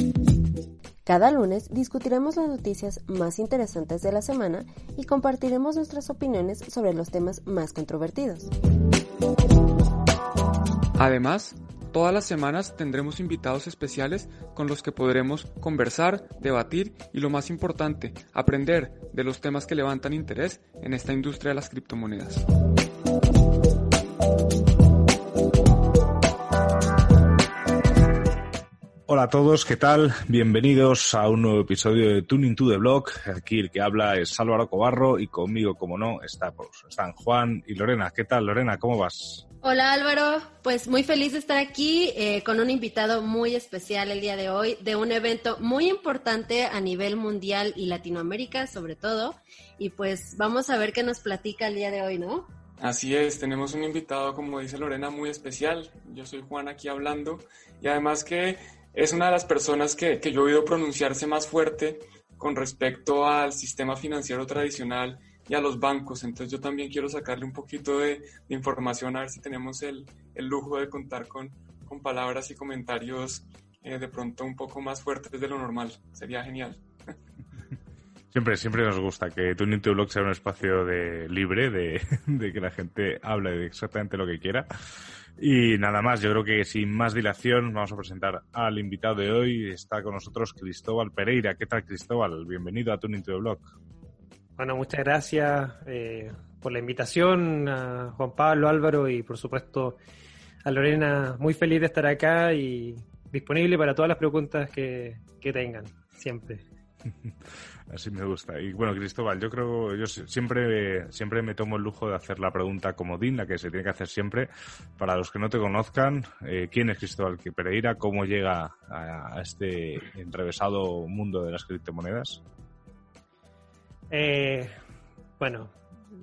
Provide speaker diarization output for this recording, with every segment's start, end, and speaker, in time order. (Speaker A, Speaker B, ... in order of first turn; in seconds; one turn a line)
Speaker A: 1.1-8.4
Speaker B: 10.9-22.4
Speaker C: 29.1-39.4
Speaker A: 39.6-52.5
Speaker B: 52.8-76.8
Speaker C: 78.3-84.7
Speaker C: 85.4-93.7
Speaker D: 94.6-100.0
Speaker D: 100.6-106.6
Speaker C: 107.9-122.4
Speaker D: 124.1-124.7
Speaker D: 125.4-125.8